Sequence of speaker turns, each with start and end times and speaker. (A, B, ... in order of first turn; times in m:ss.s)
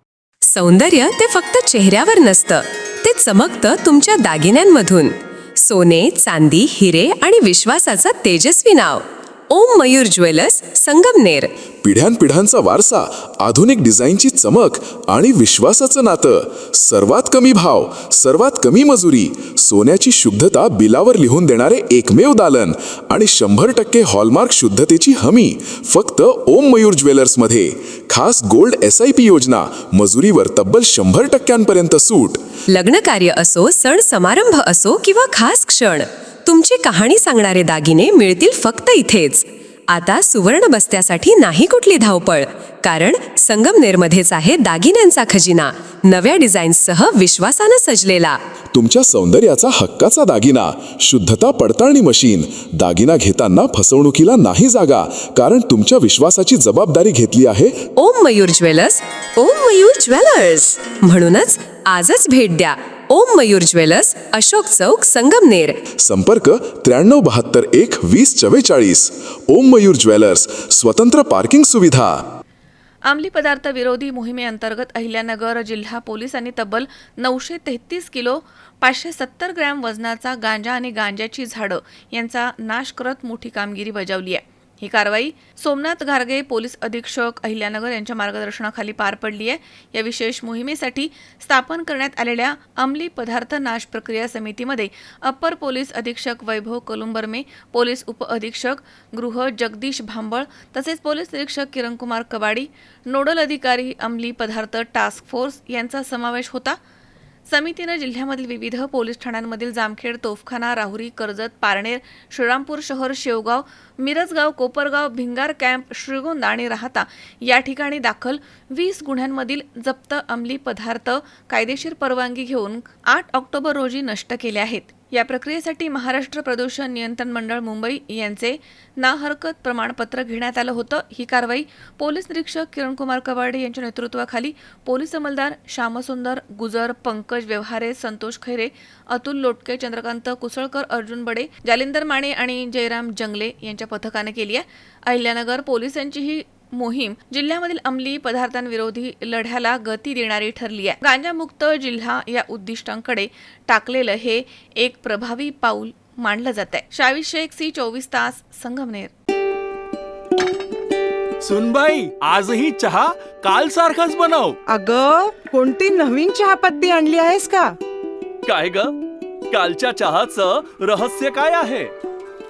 0:00.5-0:11.5 A
0:11.8-0:32.4 B
0:32.7-0:48.4 A
0:48.7-0:57.8 B
0:58.0-1:05.8 A
1:06.0-1:12.2 B
1:13.1-1:46.8 C
1:47.5-2:39.1 C
2:41.4-2:44.6 D
2:44.7-2:47.8 E
2:48.4-2:49.0 D
2:49.5-2:51.9 D